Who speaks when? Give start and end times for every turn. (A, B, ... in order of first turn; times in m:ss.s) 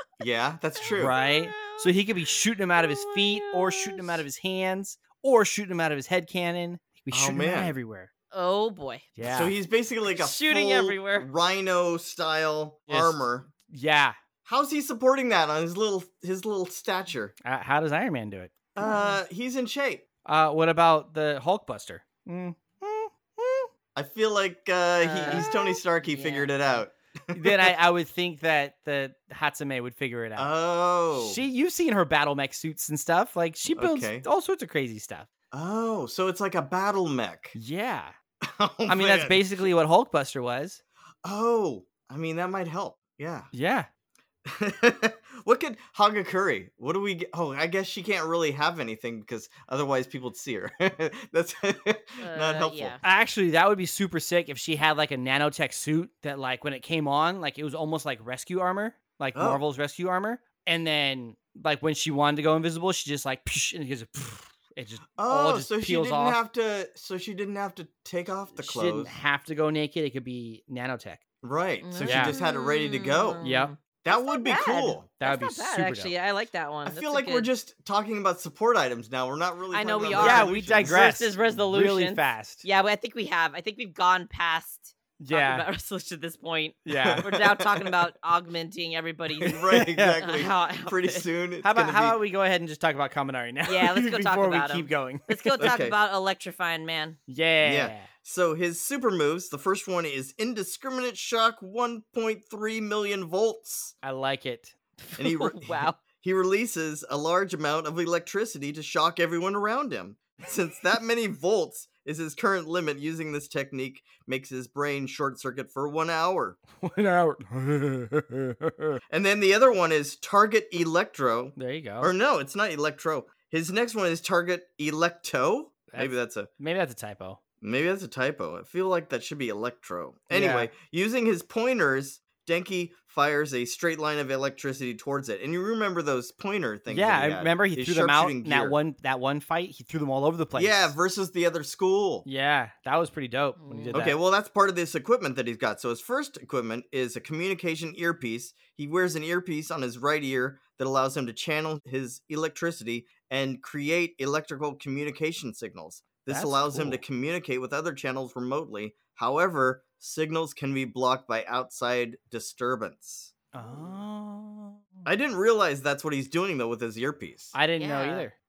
0:00.2-0:01.1 A
0:00.9-0:08.1 B
0:01.2-0:01.9 C
0:02.7-0:04.2 C
0:07.1-0:07.7 A
0:08.3-0:09.1 C
0:09.2-0:09.6 B
0:09.2-0:13.5 A
0:10.1-0:11.3 C
0:12.9-0:14.2 B
0:14.4-0:17.3 A
0:17.4-0:18.8 B
0:18.7-0:20.0 A
0:18.8-0:19.2 C
0:20.2-0:23.7 B
0:23.9-0:27.7 A
0:25.0-0:26.7 C
0:27.3-0:30.5 B
0:30.4-0:31.4 A
0:31.1-0:35.3 B
0:33.7-0:34.3 A
0:35.5-0:37.6 A
0:37.5-0:38.2 B
0:38.4-0:39.7 A
0:38.9-0:40.8 B
0:41.2-0:43.5 A
0:43.5-0:43.9 B
0:44.4-0:53.0 A
0:52.2-0:53.0 C
0:53.0-1:06.4 B
0:59.3-0:59.6 A
1:05.2-1:09.1 A
1:08.5-1:11.2 B
1:11.4-1:13.4 A
1:11.8-1:17.5 C
1:12.0-1:12.4 B
1:13.4-1:13.7 B
1:14.0-1:15.1 A
1:15.2-1:16.1 B
1:16.8-1:21.0 A
1:19.7-1:31.2 C
1:20.1-1:22.6 B
1:25.2-1:25.6 B
1:26.8-1:27.3 B
1:27.0-1:27.9 A
1:29.5-1:32.2 A
1:29.7-1:30.2 B
1:31.6-1:35.7 B
1:33.6-1:37.2 C
1:35.6-1:36.0 A
1:37.3-1:38.1 B
1:37.6-1:43.9 A
1:44.0-1:44.8 B
1:45.1-1:46.0 C
1:45.2-1:56.6 A
1:56.8-1:59.0 B
1:59.1-2:06.5 A
2:01.6-2:02.1 B
2:05.9-2:07.4 B
2:07.6-2:18.8 A
2:10.3-2:10.7 B
2:16.9-2:20.9 B
2:20.5-2:22.2 A
2:22.2-2:24.2 B
2:23.6-2:24.0 C
2:23.9-2:43.9 A
2:36.3-2:37.0 B
2:43.5-2:45.0 B
2:45.0-2:47.6 A
2:47.5-2:48.3 B
2:47.8-2:48.3 C